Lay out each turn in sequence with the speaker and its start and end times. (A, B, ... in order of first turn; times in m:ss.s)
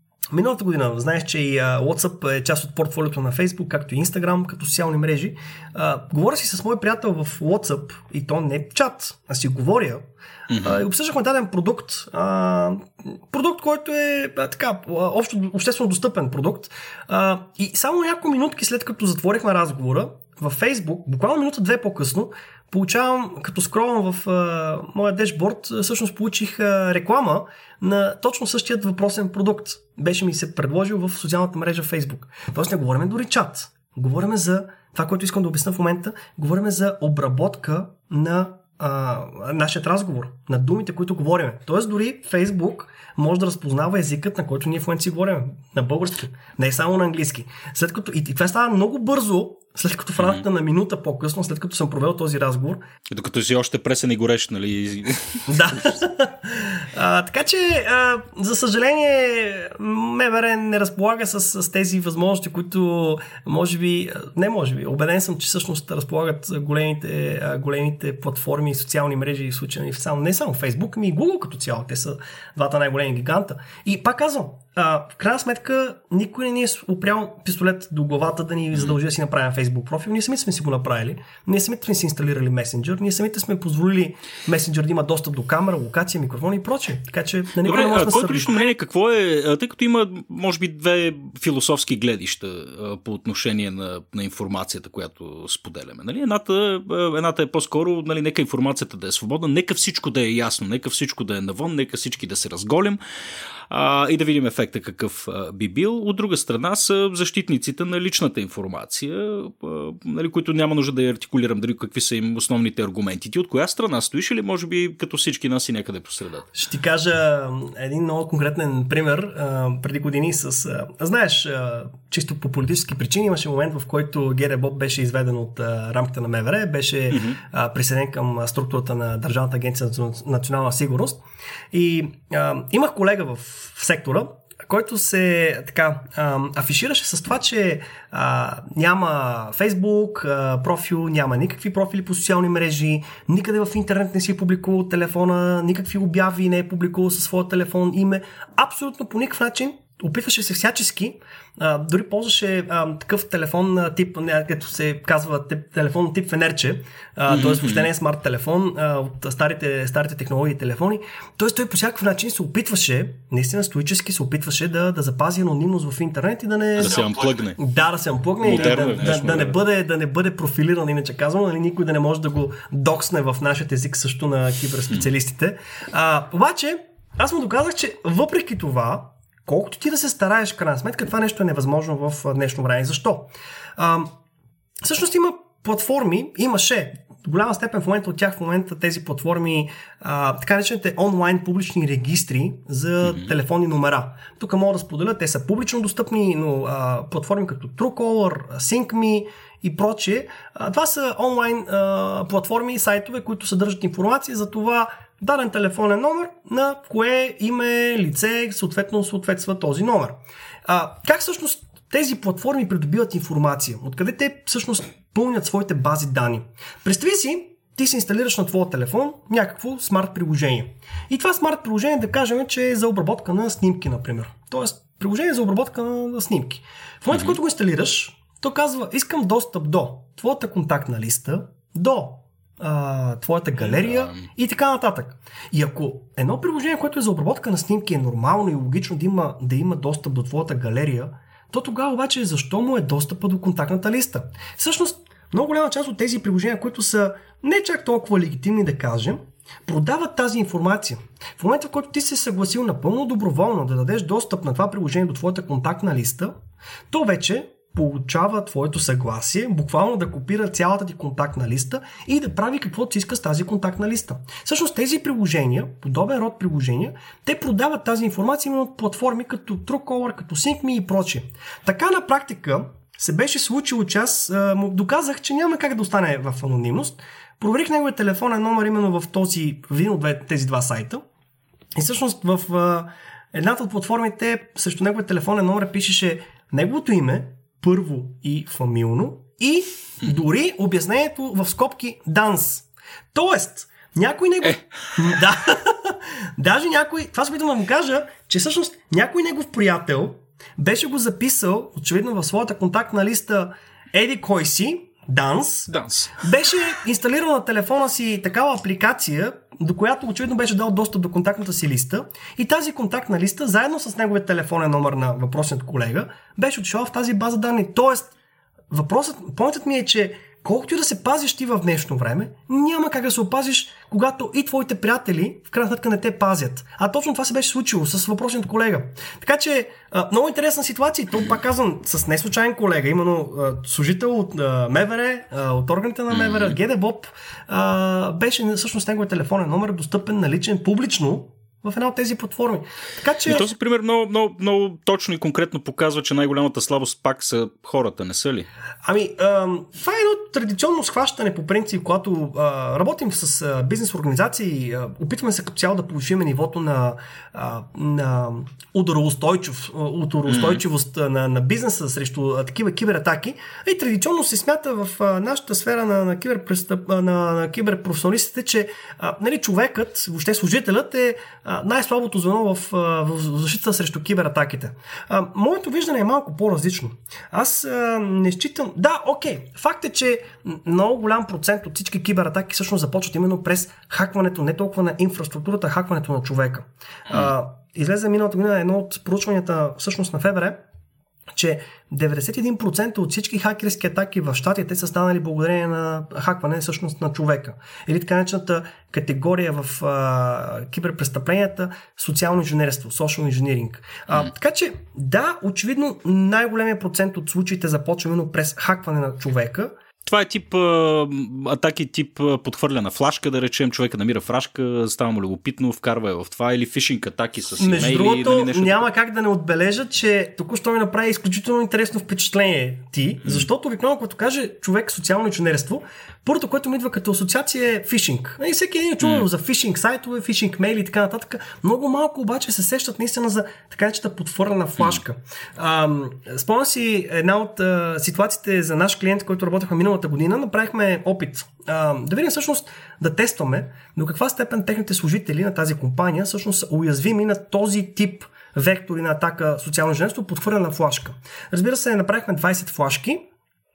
0:00.3-0:52.8 A
0:10.5-0:10.8 B
0:53.1-0:55.8 B
0:55.5-1:28.7 A
1:27.6-1:43.0 B
1:43.7-1:56.5 B
1:56.5-2:11.2 A
2:07.1-2:07.4 B
2:11.7-3:04.1 A
2:37.3-2:37.9 B
2:46.8-2:47.6 B
2:48.4-2:49.6 B
3:04.8-4:16.3 A
3:53.6-3:54.2 B
4:16.9-4:41.0 A
4:41.8-5:18.1 A
5:05.7-5:06.2 B
5:18.7-5:43.5 A
5:36.1-5:36.6 B
5:43.3-5:48.5 B
5:48.8-6:30.6 A
6:00.3-6:00.6 B
6:31.3-6:49.7 A
6:50.1-6:58.9 B
6:57.6-7:33.2 A